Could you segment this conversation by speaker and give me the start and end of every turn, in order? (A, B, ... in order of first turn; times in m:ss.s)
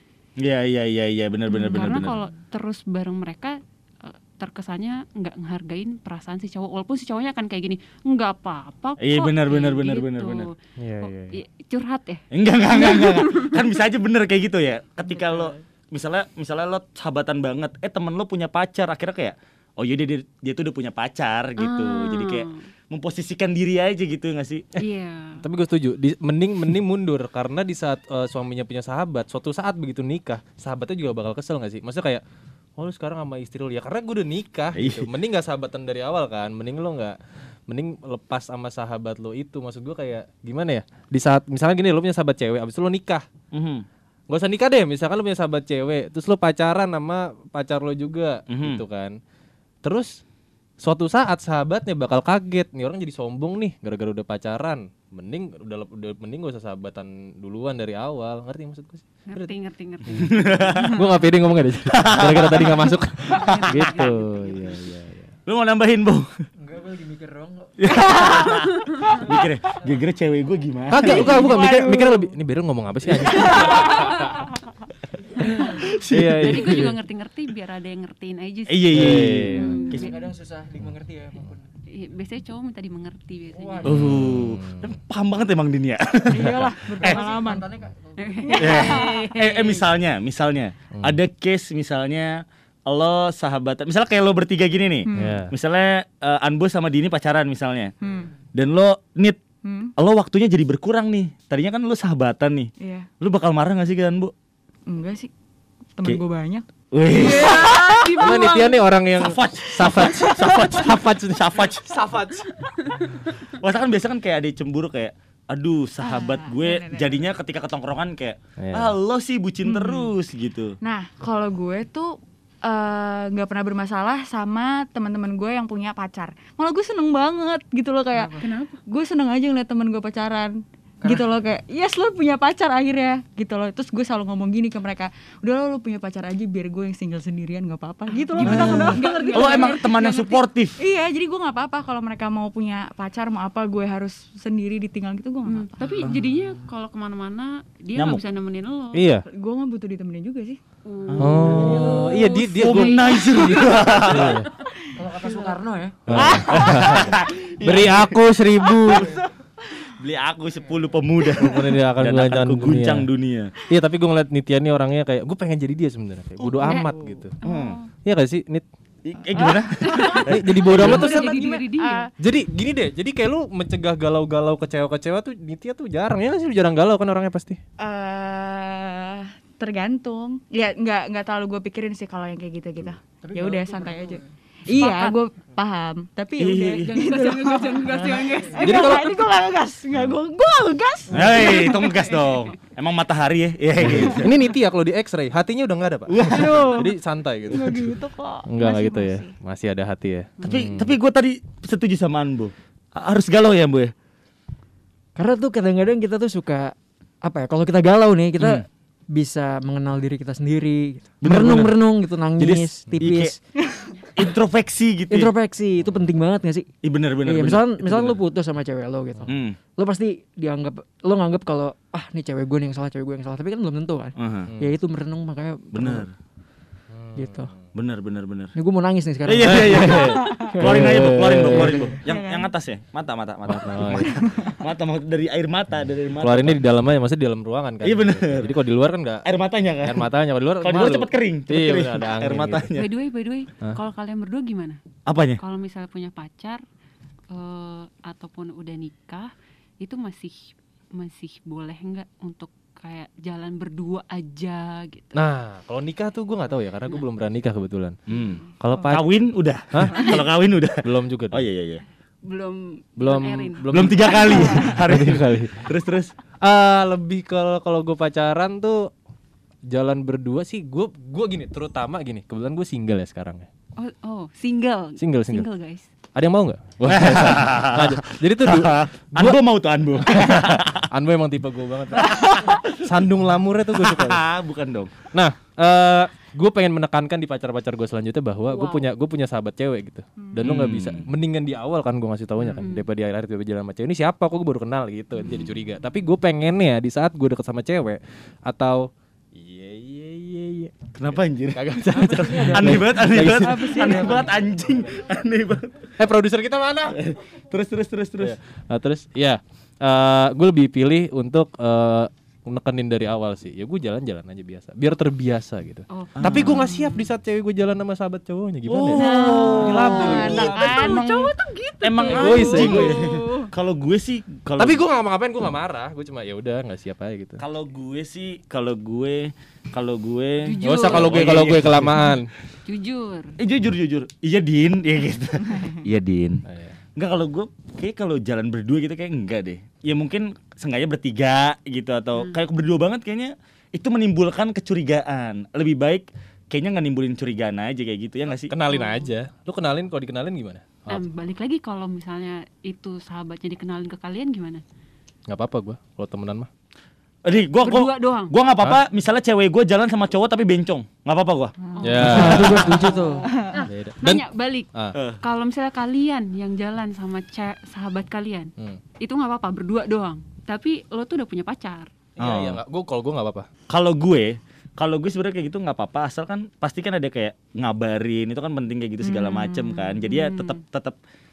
0:00.4-0:02.1 A
0:01.5-0:10.5 B
0:09.0-0:10.5 A
0:10.8-0:11.4 C
0:11.0-0:13.7 B
0:12.3-0:24.8 A
0:21.6-0:22.5 B
0:24.8-0:25.4 B
0:25.4-0:32.2 C
0:32.8-0:37.2 C
0:34.7-0:35.1 A
0:37.7-0:43.2 C
0:43.5-0:43.8 A
0:44.3-0:49.2 C
0:48.5-0:48.8 A
0:49.8-0:50.2 C
0:50.8-0:59.5 C
0:59.3-1:01.1 B
1:00.1-1:05.3 C
1:00.2-1:00.9 A
1:01.9-1:03.9 A
1:03.3-1:04.8 B
1:05.4-1:06.3 A
1:06.6-1:08.2 D
1:07.8-1:11.5 A
1:10.9-1:14.3 C
1:11.0-1:12.3 E
1:13.3-1:14.1 E
1:15.4-1:20.2 B
1:16.1-1:16.9 C
1:16.1-1:16.7 A
1:18.7-1:20.1 A
1:18.9-1:19.8 C
1:19.8-1:21.7 D
1:21.9-1:24.0 B
1:23.5-1:24.2 D
1:23.8-1:24.9 C
1:23.8-1:27.2 A
1:26.3-1:27.7 E
1:27.0-1:29.0 D
1:28.2-1:29.9 B
1:28.4-1:29.4 E
1:28.6-1:37.9 A
1:35.0-1:35.4 E
1:35.1-1:35.5 C
1:38.0-1:38.3 E
1:38.5-1:39.4 A
1:39.6-1:39.9 E
1:40.0-1:44.3 A
1:42.8-1:43.1 E
1:44.9-1:45.3 E
1:46.0-1:46.6 E
1:46.9-1:48.4 A
1:47.1-1:48.8 B
1:47.2-1:48.8 E
1:48.2-1:52.5 C
1:49.1-1:52.0 A
1:52.5-1:53.1 B
1:53.6-2:00.8 A
1:56.0-1:57.2 E
1:58.6-1:59.0 C
1:59.6-2:00.1 E
2:00.8-2:25.7 E
2:08.3-2:08.8 B
2:18.3-2:20.4 B
2:18.4-2:20.8 A
2:25.5-2:29.0 B
2:25.8-2:26.1 D
2:28.0-2:28.2 A
2:28.9-2:29.2 C
2:29.3-2:30.6 E
2:30.8-2:34.3 B
2:31.1-2:34.5 A
2:31.2-2:34.5 C
2:31.5-2:32.0 D
2:34.9-2:36.4 D
2:36.1-2:39.1 C
2:36.1-2:38.2 A
2:36.2-2:36.4 E
2:38.9-2:39.2 A
2:39.9-2:43.5 A
2:41.4-2:43.1 C
2:43.7-2:47.3 C
2:46.6-2:47.9 E
2:46.6-2:46.9 B
2:47.4-2:47.8 A
2:48.0-2:48.6 C
2:49.0-2:51.2 A
2:49.3-2:50.2 E
2:49.8-2:52.1 B
2:50.2-2:51.5 C
2:50.7-2:52.1 E
2:52.2-2:57.6 C
2:57.8-3:12.0 E
3:03.2-3:04.2 D
3:04.8-3:05.1 B
3:06.4-3:06.9 A
3:06.8-3:08.7 B
3:08.6-3:09.1 C
3:11.1-3:14.4 A
3:11.5-3:12.5 B
3:13.8-3:20.9 C
3:16.1-3:16.7 A
3:16.3-3:16.9 E
3:17.5-3:19.3 E
3:20.4-3:20.7 B
3:20.4-3:23.9 A
3:25.2-3:33.4 D
3:28.4-3:28.6 A
3:31.2-3:31.8 A
3:32.4-3:33.3 A
3:34.1-3:35.3 A
3:35.1-3:36.7 D
3:35.8-3:36.1 C
3:36.8-3:38.2 A
3:37.2-3:46.0 D
3:39.3-3:39.6 A
3:44.2-3:44.5 A
3:44.5-3:44.7 C
3:45.7-3:46.1 A
3:46.9-3:47.7 C
3:47.2-3:47.5 D
3:47.7-3:48.5 A
3:48.5-3:52.0 D
3:49.2-3:56.6 A
3:49.4-3:51.9 C
3:50.2-3:50.5 E
3:52.0-3:52.5 E
3:53.4-3:54.1 C
3:54.0-3:54.6 E
3:56.2-3:59.3 C
3:57.8-3:58.5 A
3:59.2-4:00.1 A
3:59.8-4:02.7 C
4:00.6-4:02.9 A
4:02.7-4:04.8 B
4:05.0-4:05.4 A
4:05.4-4:06.6 B
4:07.3-4:10.4 B
4:10.9-4:15.2 B
4:15.1-4:18.0 C
4:18.1-4:21.8 A
4:18.6-4:19.1 C
4:19.7-4:20.2 C
4:20.8-4:21.4 C
4:22.2-4:24.8 B
4:23.0-4:25.7 C
4:23.7-4:26.1 A
4:26.4-4:28.9 C
4:29.7-4:33.5 C
4:33.8-4:35.9 B
4:35.0-4:35.5 C
4:36.1-4:39.4 C
4:36.8-4:40.9 A
4:40.0-4:44.3 C
4:42.0-4:42.8 A
4:43.8-4:45.0 A
4:45.1-5:00.7 C
4:48.5-4:48.8 B
4:50.2-4:50.4 E
4:50.4-4:51.0 A
4:52.4-4:52.8 B
4:55.1-4:55.5 B
5:01.0-5:05.9 A
5:01.5-5:03.9 C
5:01.9-5:03.2 D
5:03.4-5:04.3 E
5:03.8-5:04.3 D
5:06.0-5:07.0 C
5:06.9-5:08.4 A
5:08.2-5:21.0 C
5:15.9-5:17.1 B
5:16.2-5:16.7 A
5:18.7-5:21.0 A
5:19.0-5:21.3 E
5:19.0-5:23.5 B
5:21.8-5:24.8 A
5:22.1-5:23.0 C
5:24.6-5:27.4 C
5:27.4-5:32.1 A
5:30.4-5:31.5 B
5:30.6-5:32.3 C
5:32.6-5:33.3 B
5:33.4-5:36.4 A
5:36.4-5:36.8 C
5:37.0-5:48.5 A
5:48.4-5:51.0 C
5:48.7-5:49.1 B
5:50.9-5:54.6 B
5:55.3-5:56.5 C
5:57.2-6:01.5 A
5:57.6-5:58.3 B
6:01.6-6:02.0 E
6:01.8-6:04.7 B
6:01.8-6:02.9 C
6:02.0-6:03.2 D
6:03.2-6:03.6 E
6:03.6-6:05.0 C
6:04.9-6:05.2 A
6:05.2-6:11.9 B
6:12.2-6:13.5 C
6:12.2-6:12.6 A
6:13.7-6:21.0 A
6:19.1-6:19.9 E
6:19.2-6:20.6 B